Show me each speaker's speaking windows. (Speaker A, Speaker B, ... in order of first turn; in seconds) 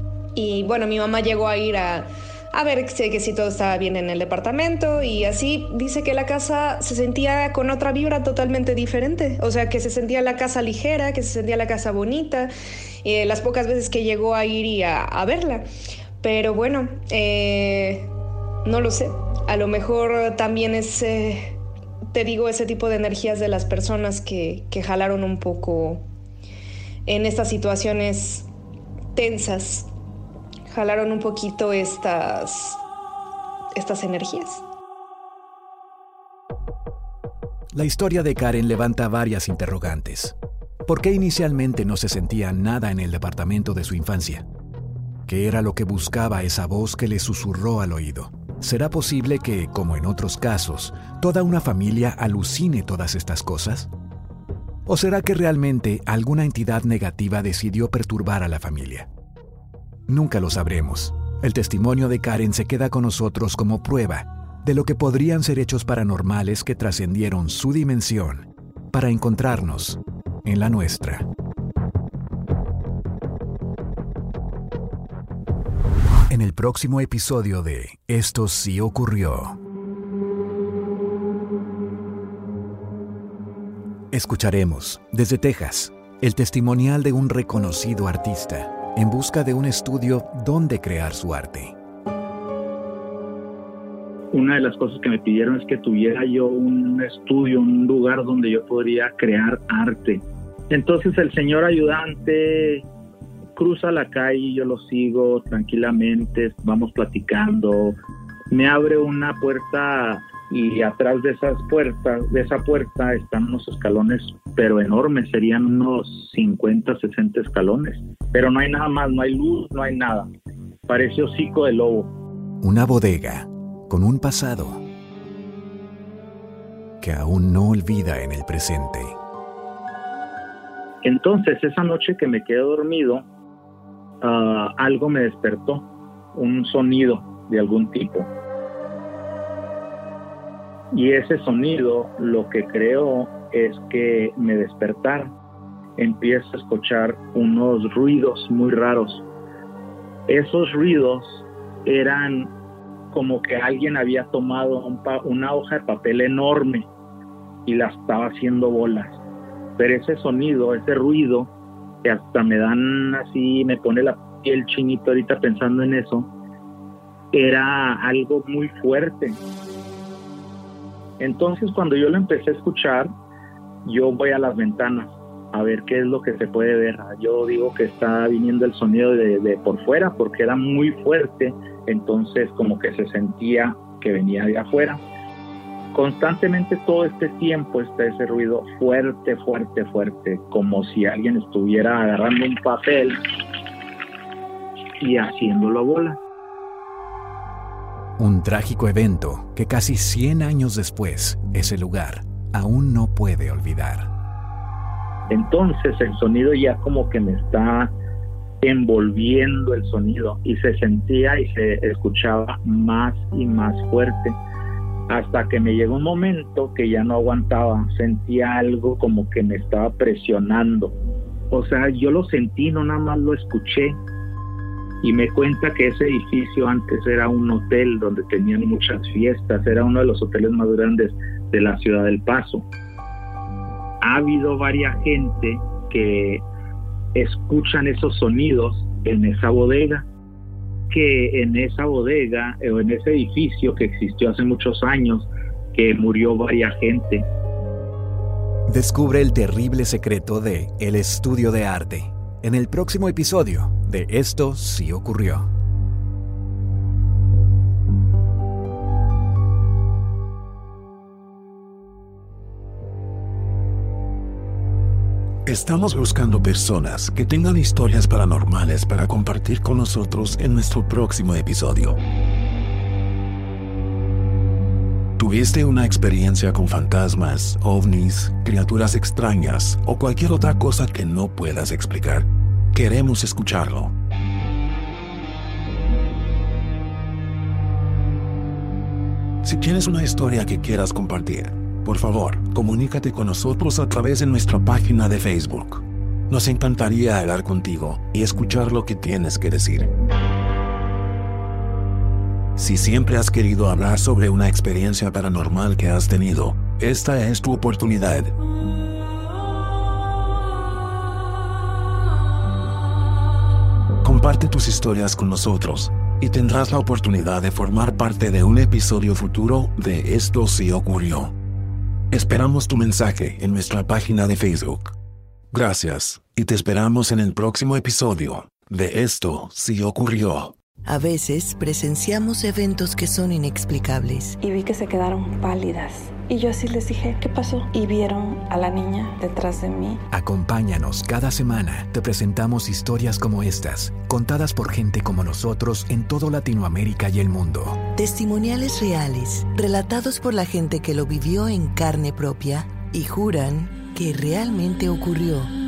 Speaker A: 0.3-12.5, 13.0-15.6, 16.2-18.1, 18.6-21.6, 22.1-26.1, 27.1-28.5, 29.1-29.9, 30.7-32.8, 33.8-34.6
Speaker B: 37.7-40.3, 40.9-44.4, 45.2-53.9, 54.9-59.1, 60.1-71.3, 76.3-79.6, 84.1-91.7, 122.6-124.8, 127.0-129.1, 198.2-204.1, 248.7-255.5, 340.1-347.8
Speaker C: 94.3-102.8, 103.5-108.0, 108.5-120.3, 120.9-122.1, 131.0-133.2, 134.2-138.3, 140.9-145.3, 146.0-149.2, 150.3-152.5, 153.1-156.9, 157.7-159.2, 159.8-161.5, 162.0-166.3, 167.3-169.4, 171.2-173.1, 173.8-185.0, 185.9-193.2, 195.0-196.2, 205.3-207.9, 208.6-214.4, 215.1-220.9, 221.5-224.0, 225.0-232.7, 234.0-236.4, 237.1-240.0, 240.9-247.2
Speaker D: 265.4-272.0, 275.2-283.9, 289.4-299.9, 302.6-308.3, 314.0-321.3, 322.1-324.9, 325.5-330.5
Speaker E: 330.9-334.4, 347.9-355.5
Speaker F: 334.4-340.0